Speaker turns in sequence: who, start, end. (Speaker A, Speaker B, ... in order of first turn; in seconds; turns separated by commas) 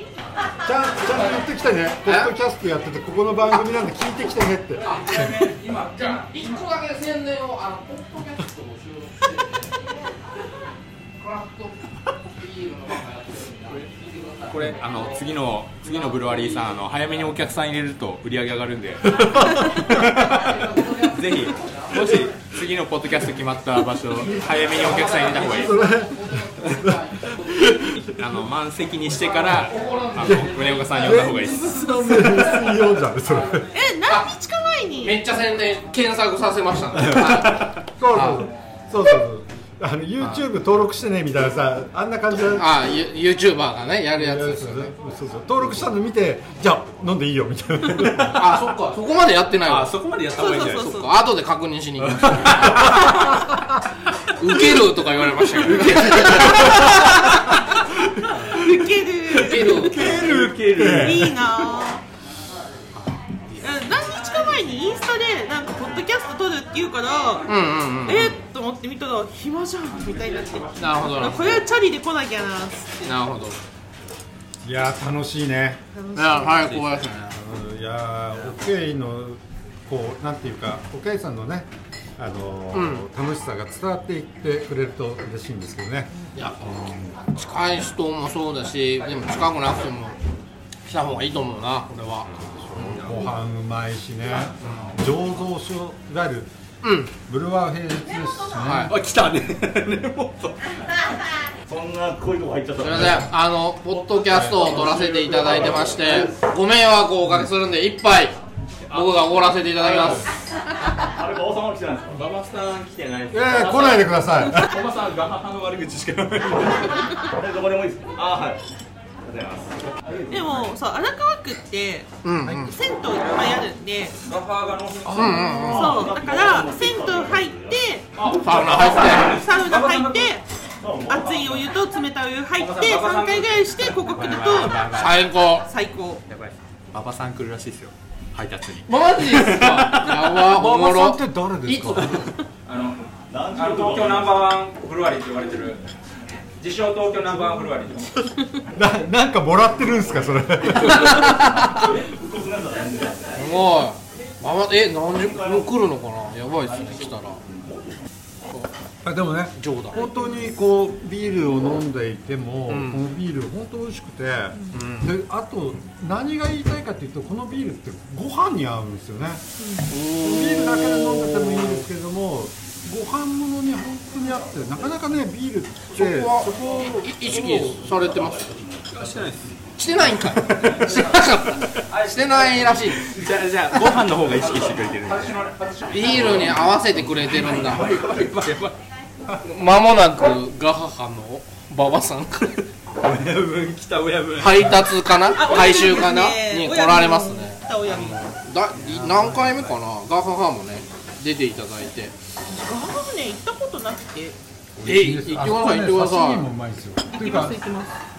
Speaker A: 0.6-4.8, Speaker B: 2.0-2.3, Speaker C: 4.8-6.7, Speaker B: 4.8-9.7, Speaker B: 11.2-15.1, Speaker D: 14.5-25.7, Speaker B: 15.9-16.6, Speaker A: 19.2-19.9, Speaker B: 20.4-21.9, Speaker B: 24.7-27.8, Speaker A: 25.5-28.2, Speaker D: 28.1-31.8, Speaker B: 29.1-32.5, Speaker A: 30.2-33.7, Speaker E: 33.7-35.2, Speaker B: 34.1-34.3, Speaker B: 35.0-38.5, Speaker A: 38.0-42.7, Speaker B: 42.5-44.9, Speaker A: 44.2-48.6, Speaker B: 48.4-50.0, Speaker D: 49.6-51.1, Speaker E: 50.4-51.1, Speaker B: 50.7-53.3, Speaker D: 52.1-53.1, Speaker B: 54.4-57.5, Speaker A: 55.7-57.1, Speaker D: 56.0-56.7, Speaker E: 58.5-60.2, Speaker B: 59.4-60.0, Speaker D: 59.6-61.4, Speaker A: 59.7-61.5, Speaker E: 61.0-62.0, Speaker B: 63.0-63.6, Speaker E: 63.6-67.5, Speaker B: 67.5-68.4, Speaker E: 68.0-73.1, Speaker C: 69.9-71.6, Speaker B: 70.8-71.6, Speaker B: 73.0-73.6, Speaker A: 74.6-75.8, Speaker E: 76.0-76.7, Speaker B: 76.2-77.4, Speaker D: 76.7-77.0, Speaker A: 77.3-87.2, Speaker B: 82.7-83.1, Speaker B: 86.3-90.2, Speaker B: 90.9-93.2, Speaker A: 92.4-96.5, Speaker C: 94.6-95.0, Speaker B: 94.6-94.9, Speaker B: 96.8-97.1, Speaker A: 97.3-99.0, Speaker B: 98.5-98.9, Speaker D: 98.9-100.6, Speaker F: 101.7-103.3, Speaker B: 102.8-108.4, Speaker D: 103.9-106.3, Speaker A: 104.3-104.8, Speaker D: 108.9-110.2, Speaker B: 108.9-110.3, Speaker F: 111.1-112.3, Speaker D: 112.1-117.2, Speaker A: 113.3-114.8, Speaker F: 117.3-118.6, Speaker D: 118.1-118.6, Speaker F: 119.3-120.4, Speaker E: 120.3-122.1, Speaker B: 122.2-122.8, Speaker E: 122.6-124.2, Speaker C: 123.2-123.6, Speaker C: 124.2-125.5, Speaker A: 125.1-125.9, Speaker B: 125.1-126.1, Speaker E: 125.6-128.1, Speaker F: 126.0-128.4, Speaker B: 128.4-129.3, Speaker C: 128.9-130.4, Speaker E: 129.1-130.4, Speaker F: 130.8-131.6, Speaker E: 131.1-135.0, Speaker C: 132.6-133.8, Speaker D: 134.0-135.2, Speaker B: 135.0-135.7, Speaker E: 135.6-136.2, Speaker D: 136.3-140.3, Speaker B: 138.9-142.3, Speaker A: 140.4-142.3, Speaker C: 142.7-145.8, Speaker F: 143.3-144.6, Speaker C: 146.6-148.2, Speaker A: 148.7-151.3, Speaker B: 150.8-151.9, Speaker F: 151.3-153.4, Speaker B: 153.3-157.4, Speaker A: 159.0-169.4, Speaker B: 159.6-160.0, Speaker B: 162.7-163.0, Speaker B: 164.7-165.1, Speaker E: 169.6-169.9, Speaker B: 169.9-171.8, Speaker A: 170.0-177.7, Speaker B: 175.9-178.5, Speaker D: 178.9-179.6, Speaker B: 179.8-183.1, Speaker C: 180.7-181.3, Speaker C: 181.9-183.2, Speaker D: 183.0-185.3, Speaker C: 184.2-186.8, Speaker B: 185.9-187.9, Speaker D: 187.3-188.8, Speaker B: 189.4-192.6, Speaker D: 193.0-194.9, Speaker B: 194.4-202.1, Speaker E: 195.3-198.3, Speaker A: 198.8-199.7, Speaker E: 202.5-204.4, Speaker A: 204.8-207.6, Speaker B: 204.8-206.5, Speaker E: 207.1-207.9